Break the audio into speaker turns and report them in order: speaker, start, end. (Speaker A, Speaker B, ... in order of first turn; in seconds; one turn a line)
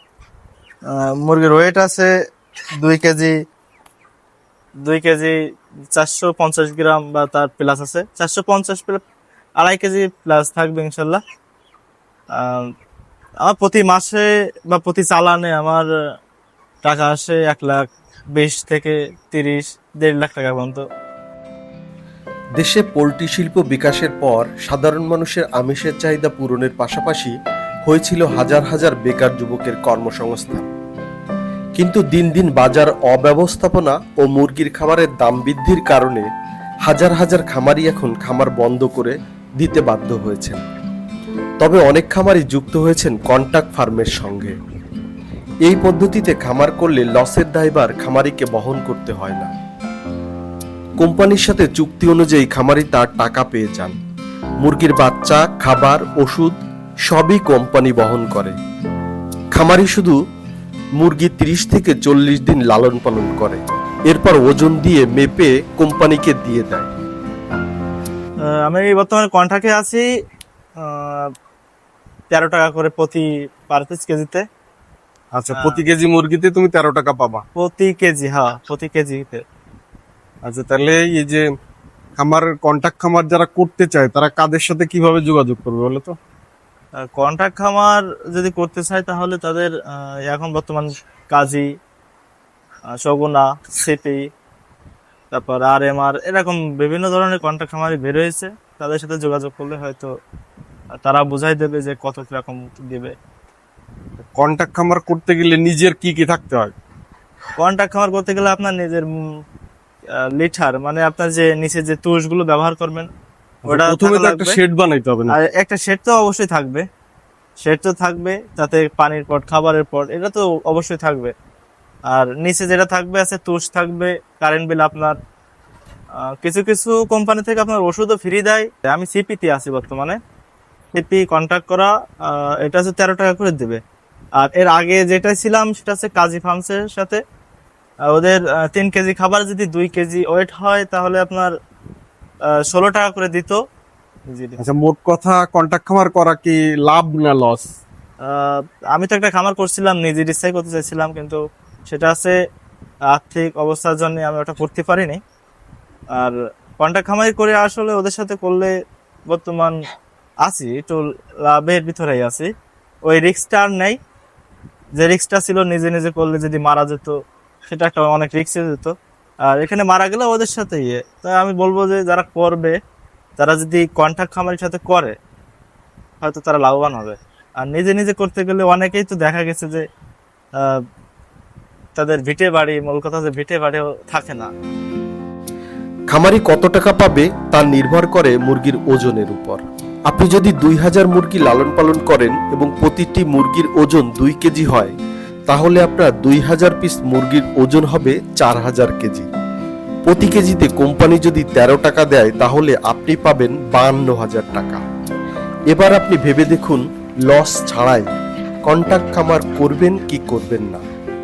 Speaker A: 0.9-2.1
Speaker A: 2.8-3.3
Speaker A: 4.8-5.3
Speaker A: 5.9-9.0
Speaker A: 9.6-11.2
Speaker A: 12.3-12.7
Speaker A: 13.4-15.9
Speaker A: 16.8-20.8
Speaker B: 22.6-27.3
Speaker B: 27.9-30.6
Speaker B: 31.8-36.3
Speaker B: 36.9-40.6
Speaker B: 41.6-44.5
Speaker B: 45.6-49.5
Speaker B: 51.0-54.0
Speaker B: 54.6-56.5
Speaker B: 57.1-58.5
Speaker B: 59.5-60.1
Speaker B: 61.0-66.9
Speaker A: 68.5-70.1
Speaker A: 70.8-71.3
Speaker A: 72.3-74.4
Speaker C: 75.3-77.4
Speaker A: 75.5-75.8
Speaker A: 77.5-79.4
Speaker C: 80.4-81.4
Speaker C: 82.2-86.2
Speaker A: 87.0-91.7
Speaker A: 93.0-94.3
Speaker A: 95.3-100.1
Speaker A: 100.9-103.1
Speaker C: 104.2-106.7
Speaker A: 107.6-109.1
Speaker A: 110.3-113.1
Speaker C: 113.6-115.3
Speaker A: 113.7-114.6
Speaker A: 115.3-116.8
Speaker A: 117.6-121.3
Speaker A: 122.1-125.2
Speaker A: 126.4-130.2
Speaker A: 130.9-133.8
Speaker A: 134.4-137.2
Speaker A: 138.1-141.5
Speaker A: 142.5-143.6
Speaker A: 144.3-144.6
Speaker C: 144.6-147.7
Speaker A: 148.2-152.3
Speaker A: 153.1-155.2
Speaker A: 156.1-158.7
Speaker A: 159.3-159.7
Speaker A: 160.4-162.5
Speaker A: 163.1-164.0
Speaker A: 164.9-167.2
Speaker A: 167.7-168.9
Speaker A: 169.4-172.8
Speaker A: 173.4-175.1
Speaker A: 176.2-179.8
Speaker A: 181.9-184.5
Speaker B: 186.1-194.9
Speaker B: 195.5-199.3
Speaker B: 200.1-204.8
Speaker B: 205.7-208.1
Speaker B: 208.6-210.8